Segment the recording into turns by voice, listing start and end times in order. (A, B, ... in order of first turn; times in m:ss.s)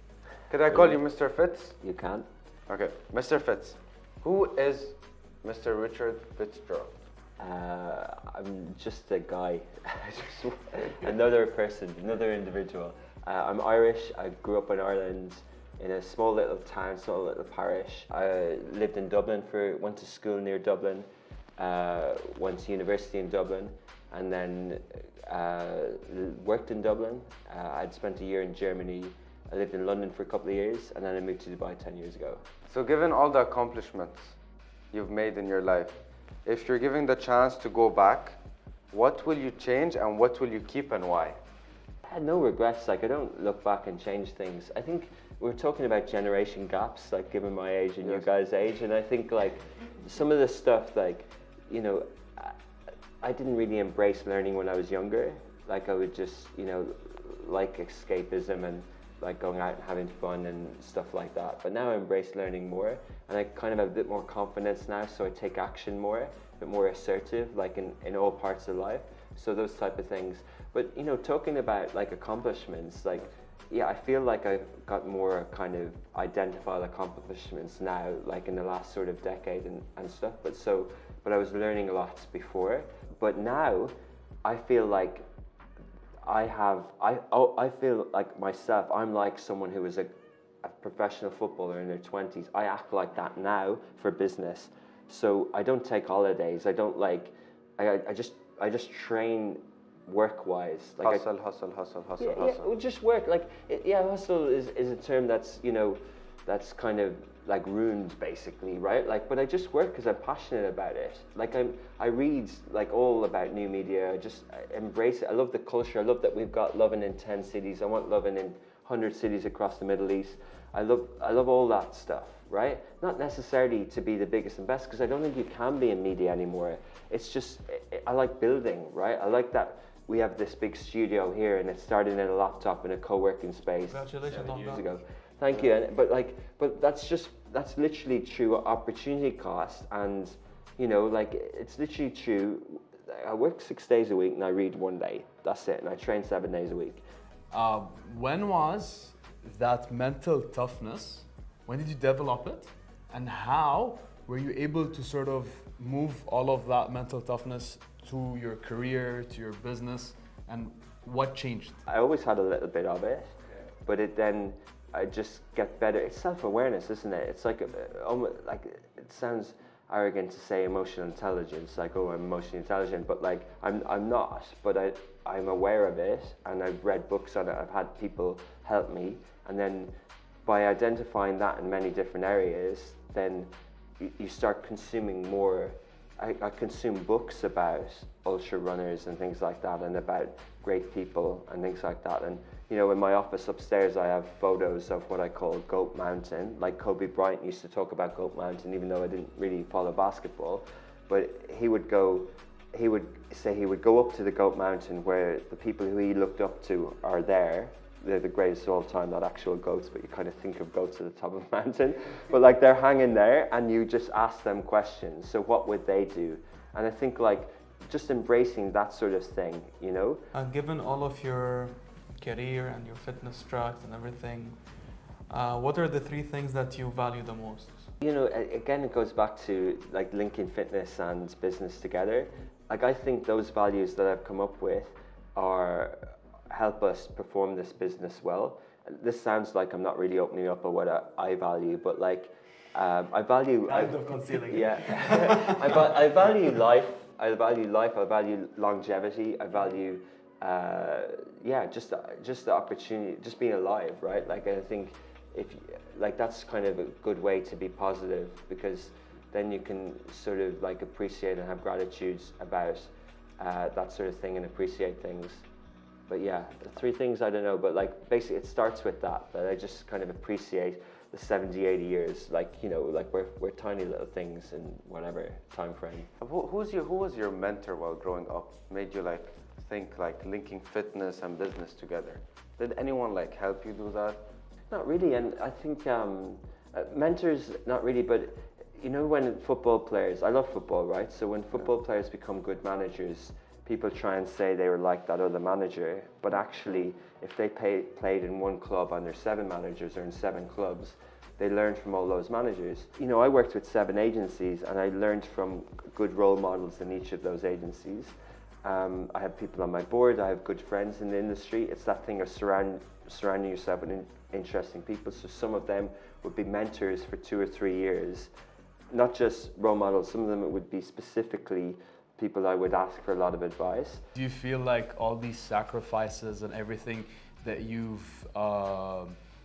0:00.5-0:01.7 A
0:00.7-0:01.0 B
0:01.8-0:02.3 B
0:02.7-0:06.9 A
0:07.4-0:21.1 B
0:21.6-0:32.4 B
0:32.7-0:34.4 A
0:34.9-0:38.4 A
0:38.9-0:41.4 A
0:42.0-0:52.6 B
0:53.2-1:25.2 B
1:26.2-1:30.1 B
1:30.6-1:41.2 B
1:41.0-1:42.7 A
1:42.2-2:27.0 B
2:13.9-2:14.9 C
2:27.5-2:41.8 D
2:41.9-2:43.3 B
2:43.8-2:59.9 B
3:00.4-3:40.2 B
3:40.3-3:47.9 C
3:48.0-4:03.9 B
4:03.6-4:05.8 C
4:04.5-4:25.4 B
4:26.1-4:36.1 B
4:36.2-4:44.2 A
4:44.7-5:18.3 B
5:18.9-5:24.0 B
5:24.2-5:29.2 D